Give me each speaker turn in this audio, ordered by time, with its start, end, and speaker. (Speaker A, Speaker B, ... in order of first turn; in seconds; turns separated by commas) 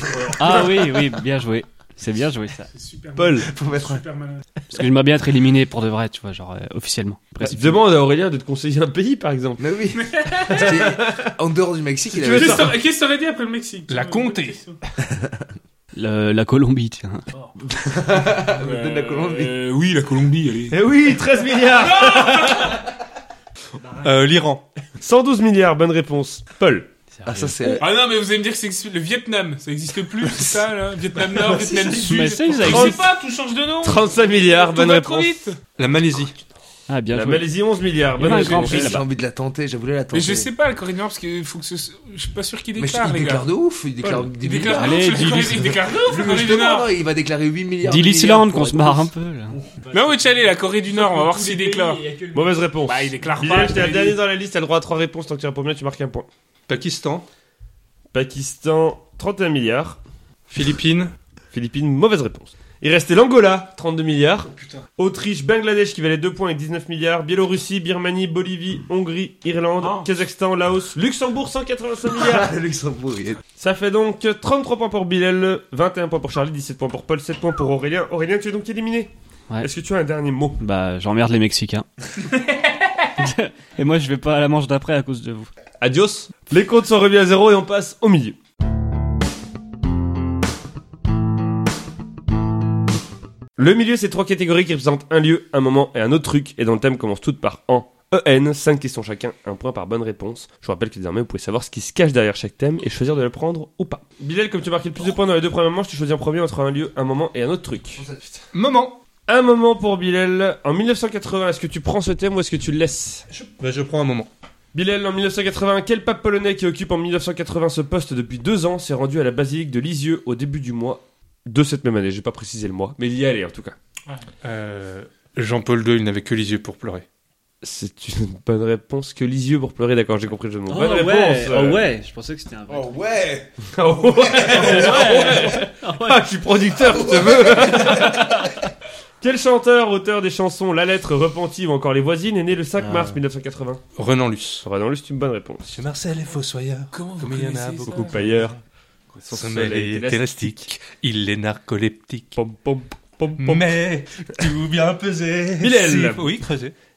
Speaker A: 0.1-0.7, Speaker B: 0.3-2.7, Speaker C: 2.7-4.5, Speaker A: 3.2-3.5, Speaker D: 3.4-4.0, Speaker B: 4.7-7.8, Speaker A: 7.4-9.7, Speaker D: 9.6-12.7, Speaker C: 9.9-10.8, Speaker A: 10.5-11.3, Speaker A: 12.1-12.8, Speaker C: 12.3-14.8, Speaker E: 13.9-14.6, Speaker D: 15.0-15.4, Speaker B: 15.9-17.3, Speaker D: 17.8-19.5, Speaker C: 18.4-20.8, Speaker A: 20.7-22.9, Speaker C: 21.8-22.8, Speaker E: 24.0-24.7, Speaker A: 25.0-26.9, Speaker B: 27.1-27.6, Speaker D: 27.3-27.9, Speaker C: 27.8-35.6, Speaker D: 31.4-32.0, Speaker B: 32.0-33.0, Speaker A: 32.6-33.0, Speaker A: 33.8-35.4, Speaker E: 35.8-36.4, Speaker B: 36.9-37.5, Speaker A: 37.1-39.0, Speaker B: 38.1-39.0, Speaker D: 38.2-40.5, Speaker C: 40.1-43.5, Speaker D: 42.8-49.1, Speaker C: 44.4-46.9, Speaker B: 44.6-45.8, Speaker B: 47.8-49.6, Speaker C: 49.9-52.2, Speaker B: 51.4-51.8, Speaker A: 52.3-56.3, Speaker C: 52.8-54.2, Speaker E: 56.7-57.3, Speaker A: 58.1-60.0, Speaker E: 60.5-61.1, Speaker A: 61.5-72.5, Speaker C: 69.8-70.1, Speaker D: 72.1-73.4, Speaker A: 73.6-80.6, Speaker B: 80.6-81.9, Speaker B: 83.2-85.5, Speaker A: 85.8-88.4, Speaker A: 93.6-108.1, Speaker D: 108.0-108.3, Speaker E: 108.5-109.0, Speaker A: 109.3-113.3, Speaker E: 113.3-114.3, Speaker A: 114.7-123.8, Speaker E: 124.4-127.0, Speaker A: 127.6-131.9, Speaker B: 130.7-133.0, Speaker D: 132.7-133.5, Speaker A: 133.7-138.6, Speaker D: 134.3-135.0, Speaker B: 134.5-136.2, Speaker D: 136.8-138.3, Speaker A: 139.2-143.8, Speaker D: 142.8-143.2, Speaker E: 144.0-144.7, Speaker A: 144.6-145.8, Speaker E: 145.7-148.5, Speaker C: 146.9-148.3, Speaker A: 147.8-148.6, Speaker A: 149.2-150.5, Speaker E: 149.3-152.4, Speaker A: 152.4-153.7, Speaker E: 153.4-156.7, Speaker A: 155.6-156.3